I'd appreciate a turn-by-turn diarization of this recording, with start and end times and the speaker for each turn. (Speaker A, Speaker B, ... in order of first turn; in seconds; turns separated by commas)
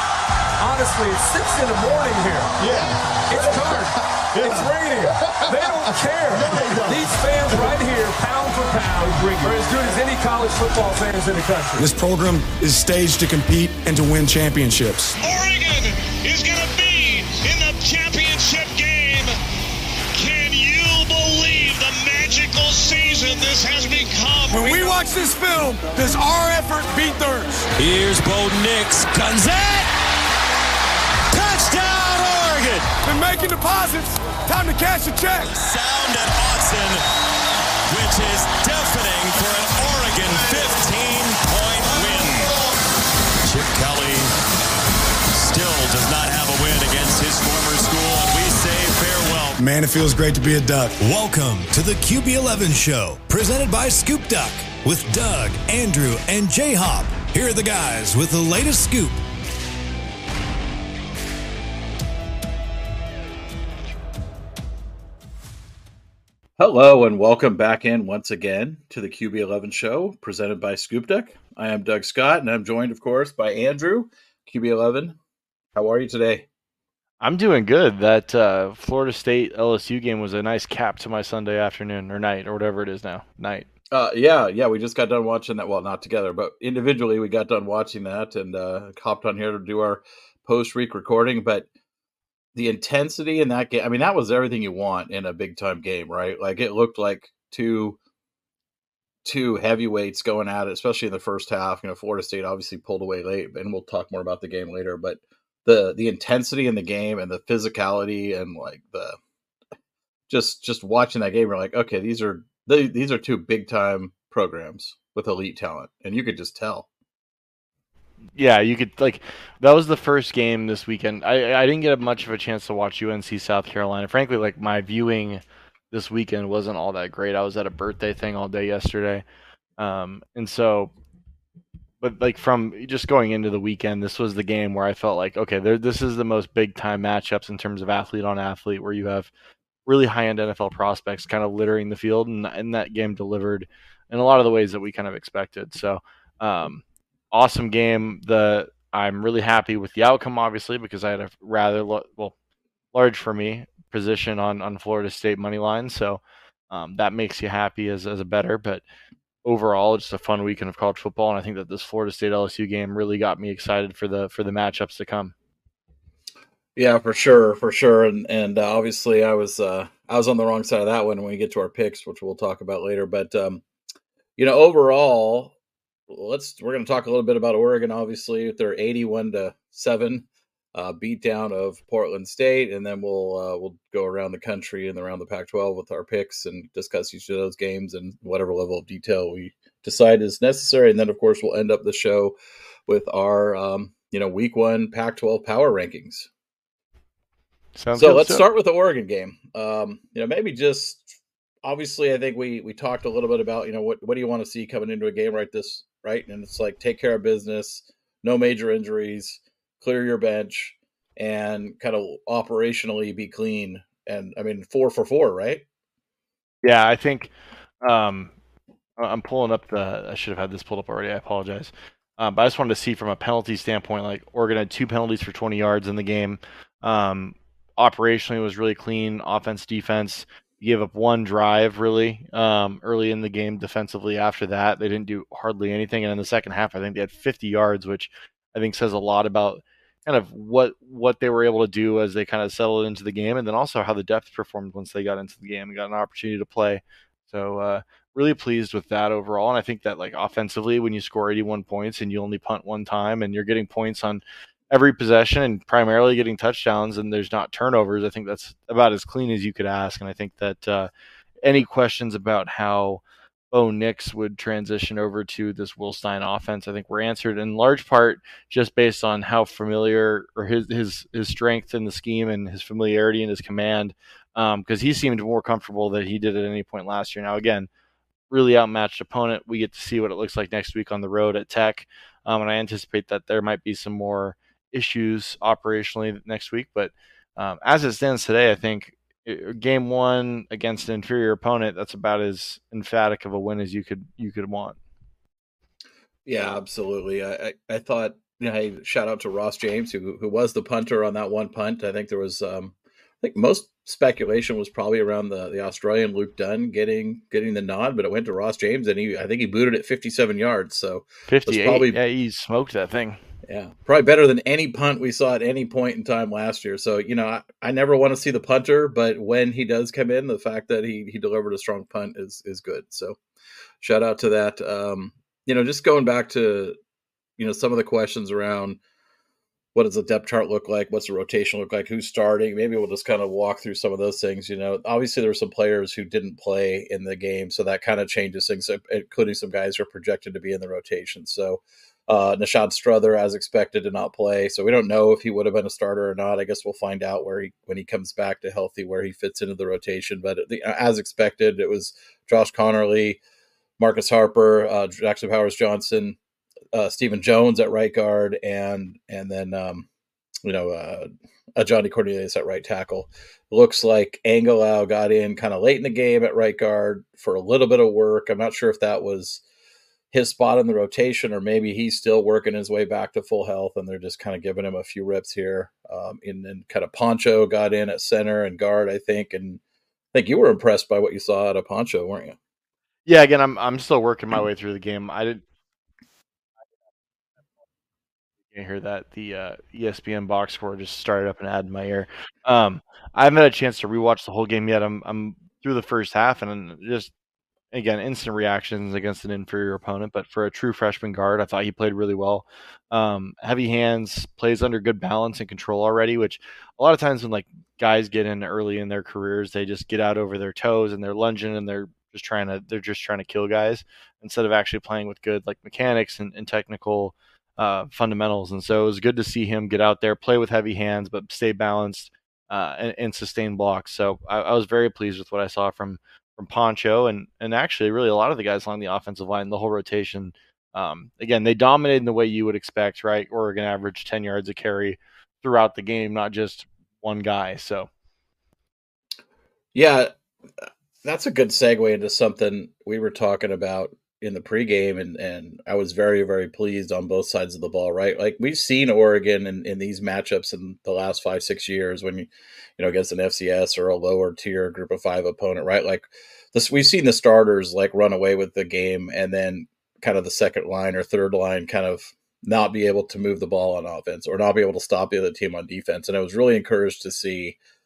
Speaker A: 0.6-11.9, Speaker B: 4.4-4.6, Speaker B: 6.5-7.0, Speaker B: 11.8-15.2, Speaker C: 15.2-19.3, Speaker C: 20.1-25.1, Speaker B: 24.5-27.6, Speaker D: 27.8-29.9, Speaker D: 31.3-32.9, Speaker B: 33.0-35.5, Speaker D: 35.4-37.0, Speaker D: 37.9-42.5, Speaker D: 43.4-44.3, Speaker D: 45.3-49.6, Speaker B: 49.6-51.0, Speaker E: 51.0-59.2, Speaker F: 66.6-75.2, Speaker F: 75.7-76.5, Speaker G: 77.2-83.7, Speaker F: 83.9-91.7, Speaker F: 92.5-98.0, Speaker F: 99.2-109.2, Speaker F: 110.3-116.9, Speaker G: 118.3-129.2, Speaker G: 129.8-130.9, Speaker G: 132.0-139.3, Speaker G: 139.8-152.3, Speaker G: 152.9-158.8, Speaker G: 159.4-165.3, Speaker F: 166.8-173.6, Speaker F: 174.4-175.6, Speaker F: 176.1-196.3, Speaker G: 197.8-198.4, Speaker F: 198.0-215.6, Speaker G: 216.6-217.3, Speaker G: 217.8-218.3, Speaker G: 219.0-260.9, Speaker G: 261.4-277.7, Speaker G: 278.3-294.8, Speaker F: 296.2-312.0, Speaker G: 311.3-313.2, Speaker F: 313.4-323.2, Speaker F: 323.8-326.8, Speaker F: 327.4-328.8, Speaker F: 329.7-353.2, Speaker F: 353.8-356.2, Speaker F: 356.7-359.9, Speaker F: 360.4-369.4, Speaker F: 370.1-379.6, Speaker F: 380.1-382.4, Speaker G: 383.1-385.4, Speaker G: 388.5-397.1, Speaker G: 397.7-437.9, Speaker F: 439.7-440.1, Speaker F: 441.0-467.6